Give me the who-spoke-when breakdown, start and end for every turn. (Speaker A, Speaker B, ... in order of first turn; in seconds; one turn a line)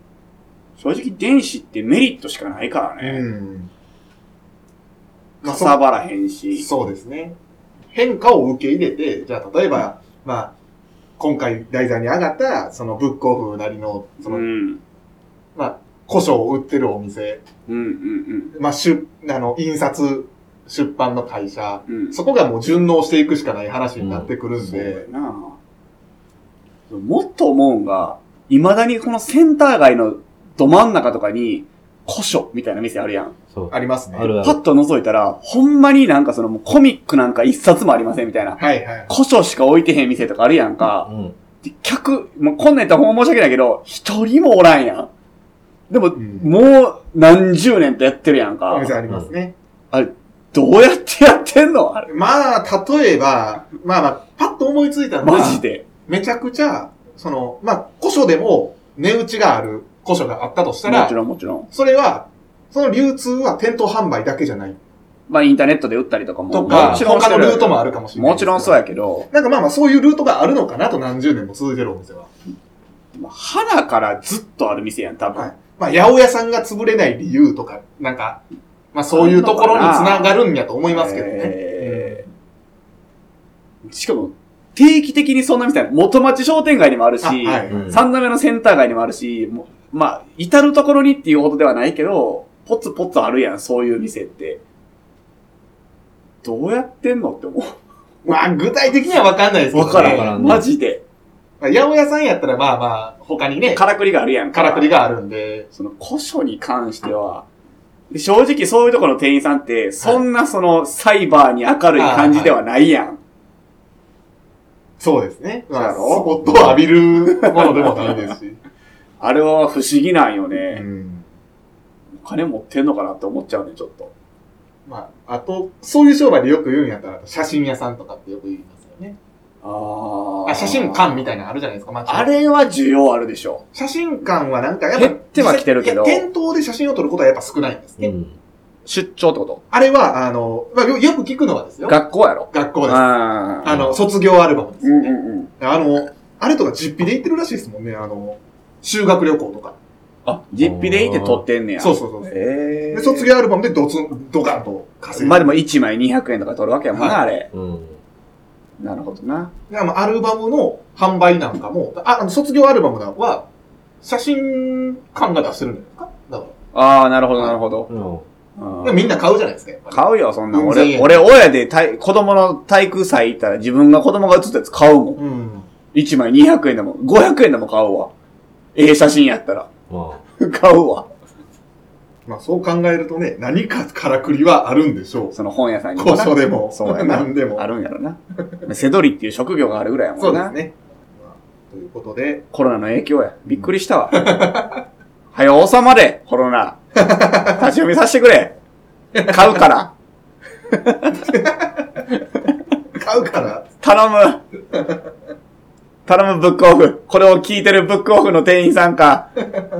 Speaker A: 0.8-3.2
Speaker B: 3.0-3.7
Speaker A: 5.4-6.7
Speaker B: 5.4-5.8
Speaker B: 6.5-7.3
Speaker B: 7.9-10.5
Speaker B: 11.2-14.5
Speaker A: 14.2-14.8
Speaker B: 15.5-17.4
Speaker A: 17.7-18.5
Speaker B: 18.5-25.1
Speaker A: 21.9-22.2
Speaker C: 24.0-24.3
Speaker A: 24.6-25.6
Speaker A: 26.9-33.3
Speaker C: 33.5-34.6
Speaker B: 33.7-34.3
Speaker A: 34.4-41.1
Speaker B: 38.6-39.1
Speaker C: 41.0-41.3
Speaker A: 41.6-45.1
Speaker A: 45.9-49.0
Speaker B: 46.1-46.5
Speaker B: 48.7-49.5
Speaker A: 49.9-52.1
Speaker B: 52.1-61.1
Speaker A: 55.2-55.8
Speaker A: 60.9-61.7
Speaker B: 61.7-64.8
Speaker A: 65.3-69.3
Speaker B: 66.5-72.3
Speaker C: 66.7-67.0
Speaker A: 73.1-75.5
Speaker B: 75.3-78.4
Speaker B: 78.9-82.3
Speaker A: 79.1-80.3
Speaker A: 80.9-82.2
Speaker A: 83.9-94.6
Speaker B: 87.2-87.9
Speaker C: 87.7-88.0
Speaker A: 96.4-98.4
Speaker B: 98.2-100.3
Speaker A: 99.7-101.0
Speaker C: 99.9-100.7
Speaker B: 101.6-103.8
Speaker A: 103.7-105.0
Speaker B: 104.5-105.7
Speaker A: 105.7-107.5
Speaker A: 108.1-113.2
Speaker B: 112.0-112.6
Speaker B: 115.0-118.6
Speaker A: 115.7-116.3
Speaker C: 116.4-116.8
Speaker A: 117.3-118.3
Speaker A: 119.2-120.8
Speaker B: 120.7-121.2
Speaker A: 122.2-124.1
Speaker B: 124.8-129.2
Speaker A: 129.6-131.2
Speaker B: 130.4-132.3
Speaker A: 132.1-133.6
Speaker B: 133.7-138.1
Speaker A: 134.9-136.2
Speaker C: 138.0-138.4
Speaker A: 138.8-139.6
Speaker B: 139.7-142.0
Speaker A: 141.9-143.8
Speaker B: 142.5-143.1
Speaker B: 143.6-149.8
Speaker A: 144.8-145.5
Speaker A: 150.2-153.3
Speaker C: 150.6-151.4
Speaker B: 151.8-152.3
Speaker B: 152.9-155.6
Speaker A: 155.1-157.5
Speaker B: 156.9-157.2
Speaker C: 157.5-158.0
Speaker A: 158.8-159.5
Speaker B: 159.7-163.5
Speaker B: 164.0-166.5
Speaker A: 166.7-167.9
Speaker C: 167.9-168.2
Speaker A: 168.6-169.2
Speaker B: 168.8-171.2
Speaker A: 169.9-175.2
Speaker B: 175.2-175.7
Speaker A: 175.9-178.1
Speaker A: 178.7-179.7
Speaker C: 179.9-180.2
Speaker A: 180.4-181.1
Speaker B: 182.3-185.3
Speaker A: 185.3-190.5
Speaker B: 185.9-187.6
Speaker B: 190.2-192.4
Speaker A: 192.5-194.3
Speaker B: 194.1-194.8
Speaker A: 195.3-196.8
Speaker B: 197.0-197.6
Speaker A: 197.4-198.5
Speaker B: 199.1-199.6
Speaker A: 199.3-199.9
Speaker A: 200.7-201.1
Speaker B: 201.3-202.0
Speaker B: 202.9-203.7
Speaker A: 203.8-204.4
Speaker A: 206.1-209.3